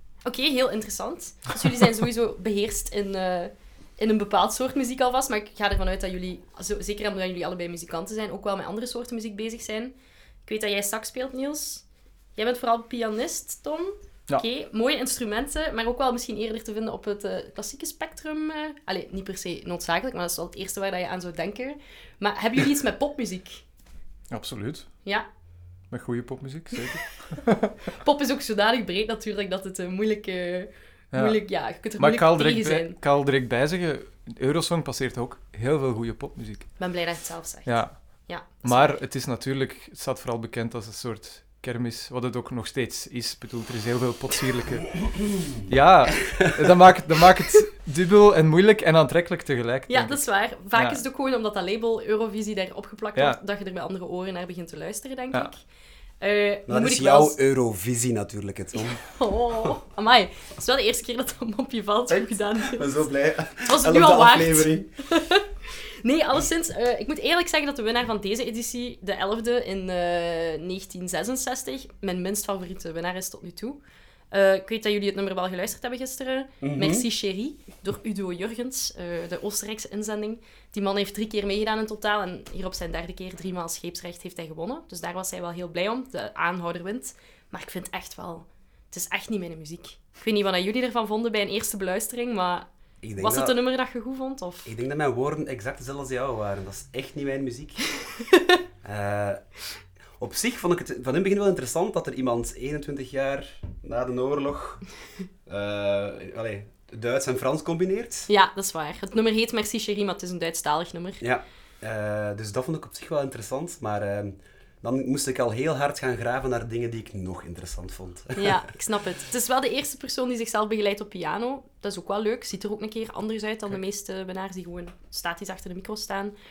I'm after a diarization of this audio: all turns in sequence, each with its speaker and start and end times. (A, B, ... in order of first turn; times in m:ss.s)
0:00.2-0:09.9 A
0:10.4-0:11.8 A
0:12.4-0:23.6 A
0:24.3-0:24.9 B
0:25.9-0:27.8 B
0:27.9-0:33.0 A
0:31.1-0:36.7 B
0:36.8-0:38.9 A
0:37.6-0:51.0 B
0:49.9-0:55.6 A
0:56.2-0:57.4 A
0:56.7-0:59.0 C
0:59.0-1:02.9 A
1:02.6-1:04.9 C
1:03.6-1:05.5 A
1:06.0-1:13.8 A
1:14.3-1:34.7 A
1:16.6-1:17.0 C
1:33.0-1:33.6 C
1:34.6-1:37.8 C
1:38.8-1:39.4 C
1:40.2-1:44.8 C
1:45.4-1:48.3 C
1:48.3-1:51.2 A
1:51.2-1:58.6 C
1:58.3-2:06.3 A